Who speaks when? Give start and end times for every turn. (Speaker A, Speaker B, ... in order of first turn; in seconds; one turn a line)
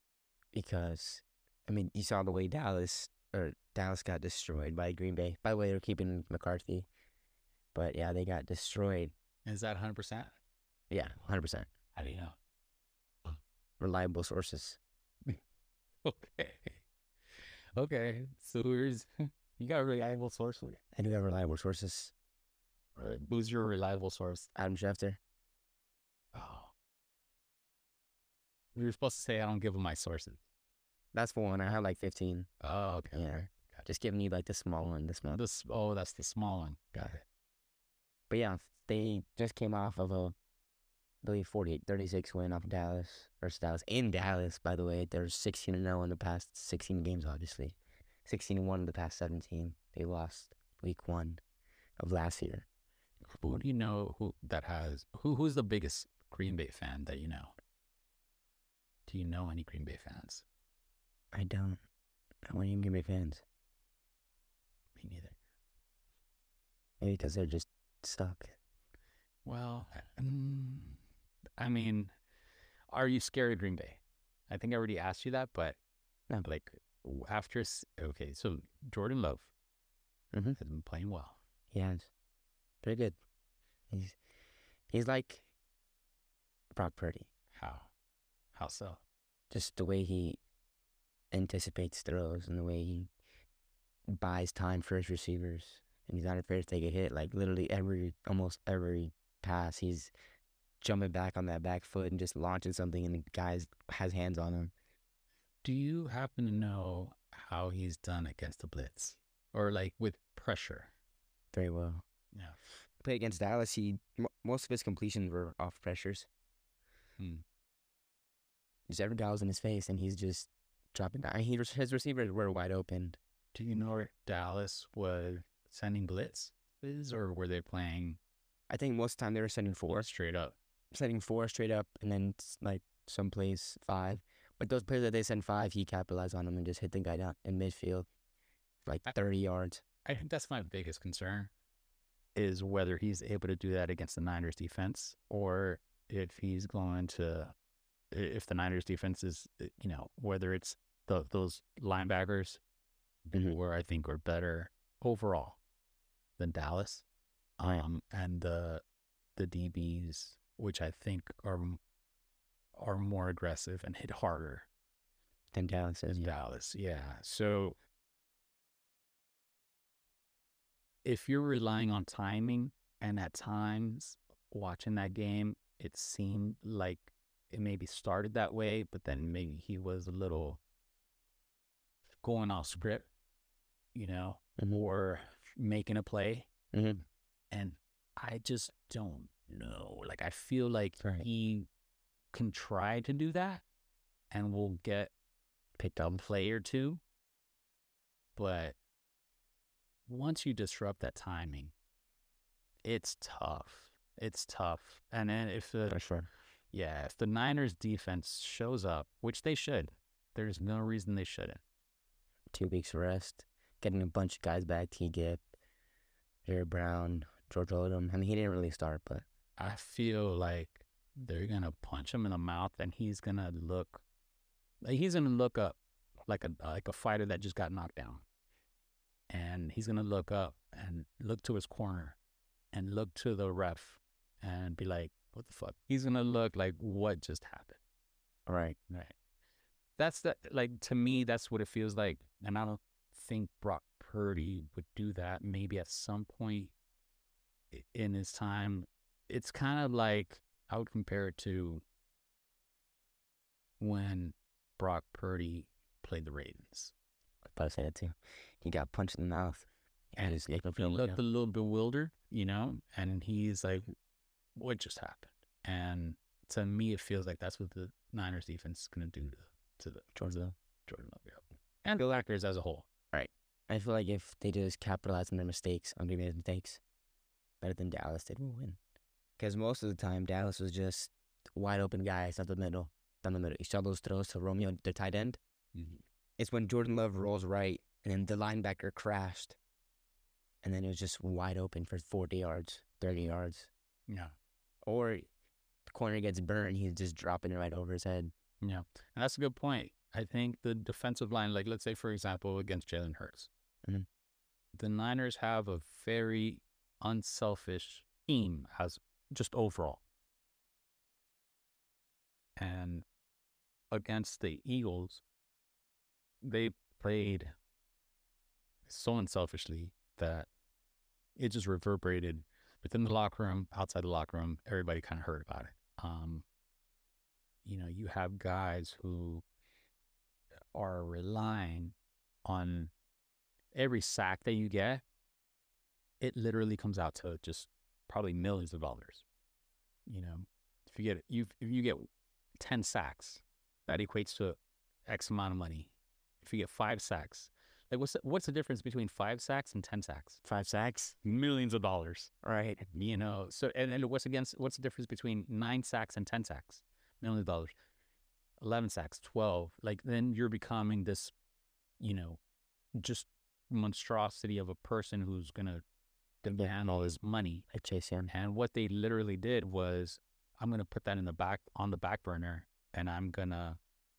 Speaker A: 0.5-6.9
Speaker A: 7.7-9.1
Speaker B: 9.4-10.3
Speaker A: 10.9-11.7
Speaker B: 11.9-12.3
Speaker A: 13.8-14.8
Speaker B: 16.0-16.8
Speaker B: 17.8-20.8
Speaker A: 20.9-22.1
Speaker B: 22.9-24.5
Speaker A: 24.5-25.2
Speaker B: 26.3-26.7
Speaker B: 28.7-30.4
Speaker A: 31.1-32.5
Speaker B: 32.6-33.8
Speaker A: 33.1-35.4
Speaker B: 35.3-37.2
Speaker A: 38.3-40.4
Speaker A: 41.2-51.4
Speaker A: 52.0-52.6
Speaker B: 53.3-57.5
Speaker B: 59.1-60.4
Speaker A: 61.3-61.8
Speaker A: 62.5-63.4
Speaker B: 65.0-65.3
Speaker A: 67.0-68.5
Speaker B: 69.5-71.0
Speaker B: 71.6-72.1
Speaker B: 72.9-75.8
Speaker B: 76.4-79.5
Speaker A: 80.3-80.6
Speaker B: 80.5-81.4
Speaker A: 81.7-82.1
Speaker A: 82.8-83.2
Speaker A: 83.9-84.2
Speaker A: 84.9-85.5
Speaker A: 86.7-87.3
Speaker B: 87.5-87.9
Speaker B: 88.5-89.0
Speaker A: 89.5-90.4
Speaker A: 91.3-93.1
Speaker A: 94.1-100.1
Speaker A: 100.8-104.7
Speaker B: 105.6-110.9
Speaker A: 111.5-112.0
Speaker A: 113.0-116.3
Speaker B: 117.2-117.4
Speaker A: 118.9-123.2
Speaker B: 123.5-128.2
Speaker A: 128.7-130.1
Speaker B: 129.9-130.6
Speaker A: 130.9-138.1
Speaker A: 138.8-139.8
Speaker B: 140.0-141.5
Speaker B: 142.3-147.5
Speaker B: 148.1-152.6
Speaker B: 153.3-155.6
Speaker B: 156.4-157.0
Speaker B: 157.6-158.8
Speaker B: 159.3-161.8
Speaker B: 162.7-164.7
Speaker A: 165.5-166.3
Speaker B: 166.1-167.8
Speaker B: 171.0-180.6
Speaker B: 182.2-183.1
Speaker B: 183.9-186.5
Speaker A: 186.7-187.0
Speaker B: 187.5-191.7
Speaker A: 191.0-191.2
Speaker B: 192.3-193.6
Speaker B: 194.3-195.1
Speaker A: 195.8-196.2
Speaker B: 196.0-197.0
Speaker B: 198.3-198.8
Speaker B: 200.1-201.7
Speaker B: 202.8-206.0
Speaker A: 205.9-206.3
Speaker B: 206.7-211.6
Speaker A: 212.5-215.4
Speaker A: 216.4-219.2
Speaker B: 219.6-224.0
Speaker B: 224.8-228.2
Speaker B: 229.3-232.2
Speaker B: 232.7-237.8
Speaker A: 238.5-238.8
Speaker B: 238.9-239.1
Speaker B: 240.0-246.7
Speaker B: 247.7-251.8
Speaker B: 253.8-256.9
Speaker A: 257.5-261.2
Speaker B: 260.2-263.9
Speaker B: 264.5-272.9
Speaker A: 270.1-270.5
Speaker A: 273.1-276.8
Speaker A: 277.6-278.8
Speaker A: 279.4-285.4
Speaker A: 286.4-289.6
Speaker A: 290.6-293.7
Speaker B: 294.1-294.3
Speaker A: 294.8-295.3
Speaker A: 295.9-298.3
Speaker B: 298.6-303.5
Speaker B: 304.7-310.0
Speaker B: 312.6-313.0
Speaker B: 313.9-315.2
Speaker B: 316.4-317.5
Speaker B: 318.9-320.5
Speaker B: 321.4-326.4
Speaker B: 327.6-329.4
Speaker B: 330.7-332.9
Speaker B: 333.7-335.0
Speaker B: 336.2-339.2
Speaker B: 340.1-342.1
Speaker B: 342.6-350.4
Speaker A: 350.4-351.2
Speaker B: 351.2-352.3
Speaker A: 352.4-352.8
Speaker B: 352.9-357.7
Speaker B: 358.6-361.3
Speaker B: 362.0-362.4
Speaker B: 362.9-365.8
Speaker B: 366.4-367.6
Speaker A: 367.7-368.3
Speaker B: 368.3-373.8